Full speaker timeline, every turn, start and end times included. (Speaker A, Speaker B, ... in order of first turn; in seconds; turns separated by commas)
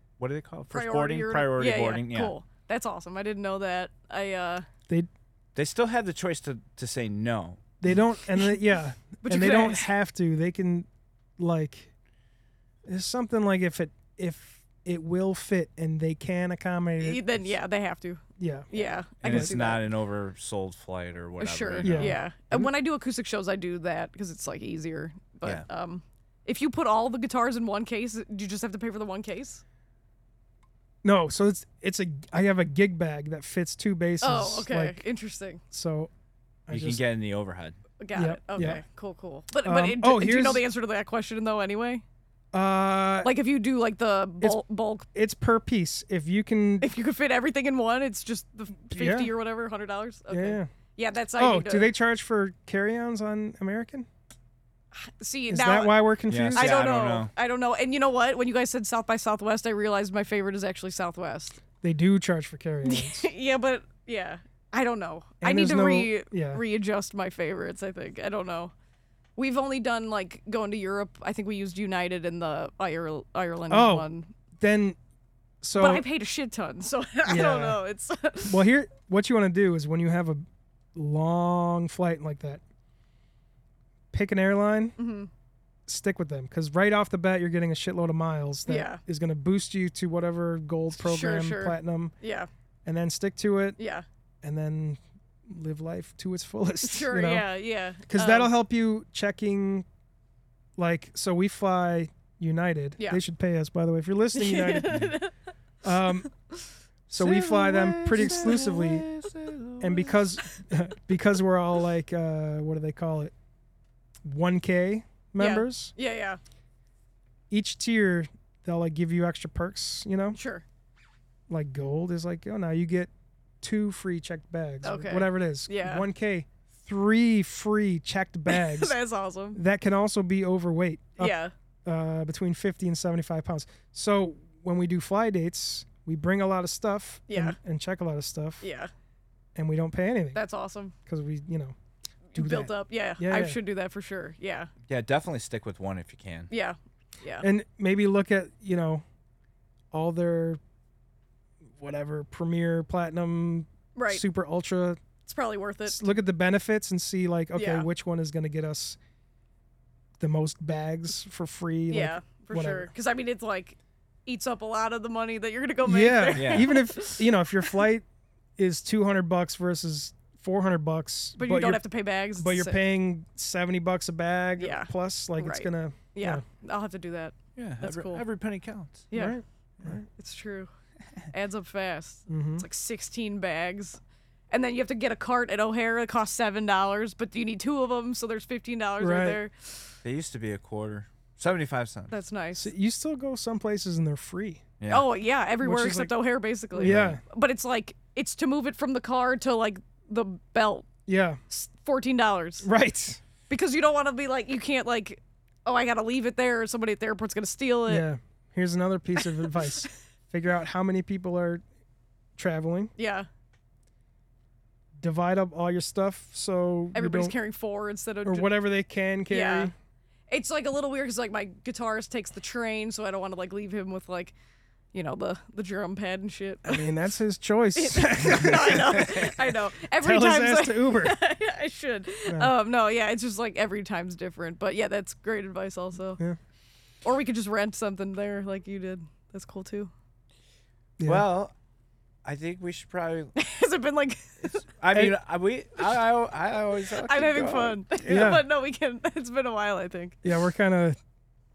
Speaker A: 0.2-2.4, Speaker B: 0.7-4.7, Speaker A: 5.5-7.6, Speaker C: 7.8-10.9, Speaker B: 9.2-9.9, Speaker C: 11.4-11.9, Speaker C: 12.9-17.2, Speaker B: 17.0-19.8, Speaker C: 18.4-18.7, Speaker A: 19.2-22.2, Speaker C: 19.2-19.6, Speaker B: 21.4-29.6, Speaker C: 21.8-22.7, Speaker C: 31.0-35.0, Speaker B: 34.2-35.6, Speaker C: 35.7-36.1, Speaker C: 36.7-37.0, Speaker A: 36.7-37.8, Speaker B: 38.0-42.0, Speaker C: 38.1-38.8, Speaker C: 39.6-40.6, Speaker C: 42.5-43.3, Speaker B: 43.2-45.1, Speaker C: 45.1-46.9, Speaker B: 46.8-51.9, Speaker C: 48.9-49.3, Speaker C: 50.3-50.7, Speaker C: 51.4-54.1, Speaker B: 54.9-61.6, Speaker C: 55.5-56.7, Speaker A: 56.3-57.3, Speaker C: 61.8-63.3, Speaker B: 62.8-68.7, Speaker C: 65.4-66.6, Speaker B: 69.4-74.3, Speaker C: 73.7-74.1, Speaker C: 74.6-75.0, Speaker C: 75.6-76.0, Speaker B: 75.8-78.6, Speaker C: 77.3-77.8, Speaker C: 78.4-80.4, Speaker C: 80.9-82.6, Speaker C: 84.1-84.9, Speaker B: 85.0-85.3, Speaker C: 85.9-92.1, Speaker B: 88.7-89.0, Speaker B: 91.0-92.5, Speaker C: 92.8-93.8, Speaker B: 93.8-94.0, Speaker C: 94.4-97.5, Speaker B: 96.8-98.5, Speaker C: 98.1-99.9, Speaker C: 100.8-105.1, Speaker B: 104.3-105.3, Speaker C: 105.8-106.3, Speaker C: 107.1-109.0, Speaker A: 107.2-110.2, Speaker B: 108.2-108.6, Speaker C: 109.8-113.3, Speaker C: 114.2-115.9, Speaker B: 115.4-116.4, Speaker C: 117.5-120.4, Speaker B: 120.3-120.6, Speaker C: 121.5-123.1, Speaker C: 123.6-128.9, Speaker B: 124.8-126.1, Speaker B: 128.5-129.6, Speaker C: 129.5-138.6, Speaker B: 131.2-131.5, Speaker B: 137.3-137.6, Speaker B: 138.6-138.9, Speaker C: 139.6-140.4, Speaker B: 140.3-140.9, Speaker C: 141.1-141.7, Speaker B: 142.3-144.7, Speaker C: 142.3-143.6, Speaker A: 144.9-146.5, Speaker B: 146.5-147.5, Speaker C: 147.4-149.0, Speaker C: 149.9-150.6, Speaker C: 151.8-155.0, Speaker B: 153.9-154.2, Speaker B: 155.2-156.0, Speaker C: 155.9-159.0, Speaker B: 157.6-157.9, Speaker C: 160.2-162.9, Speaker B: 161.9-167.3, Speaker C: 165.8-168.1, Speaker A: 166.3-166.7, Speaker C: 168.6-171.8, Speaker B: 171.4-172.8, Speaker C: 172.4-176.4, Speaker B: 174.6-178.2, Speaker A: 177.6-179.1, Speaker B: 179.1-179.4, Speaker C: 179.1-180.1, Speaker B: 180.1-180.7, Speaker B: 181.3-184.0, Speaker C: 182.3-182.7, Speaker B: 184.5-189.9, Speaker C: 189.0-189.4, Speaker A: 190.0-192.2, Speaker B: 192.1-192.7, Speaker C: 192.5-194.6, Speaker A: 194.8-195.1, Speaker B: 194.9-200.9, Speaker C: 195.6-196.1, Speaker C: 196.7-197.2, Speaker A: 196.8-197.2, Speaker C: 201.1-201.4, Speaker B: 201.5-202.7, Speaker C: 202.6-203.2, Speaker B: 203.5-208.1, Speaker C: 207.9-211.6, Speaker B: 209.2-209.9, Speaker C: 212.4-212.9, Speaker B: 213.0-213.3, Speaker C: 215.0-217.3, Speaker B: 216.9-218.5, Speaker C: 218.3-219.7, Speaker B: 219.3-219.7, Speaker B: 220.3-224.3, Speaker B: 224.9-226.9, Speaker C: 226.7-231.2, Speaker B: 227.7-236.2, Speaker B: 237.0-239.9, Speaker A: 241.1-241.5, Speaker A: 242.2-243.3, Speaker B: 243.4-244.7, Speaker A: 244.4-248.4, Speaker B: 247.0-250.2, Speaker C: 248.1-248.4, Speaker C: 250.2-251.0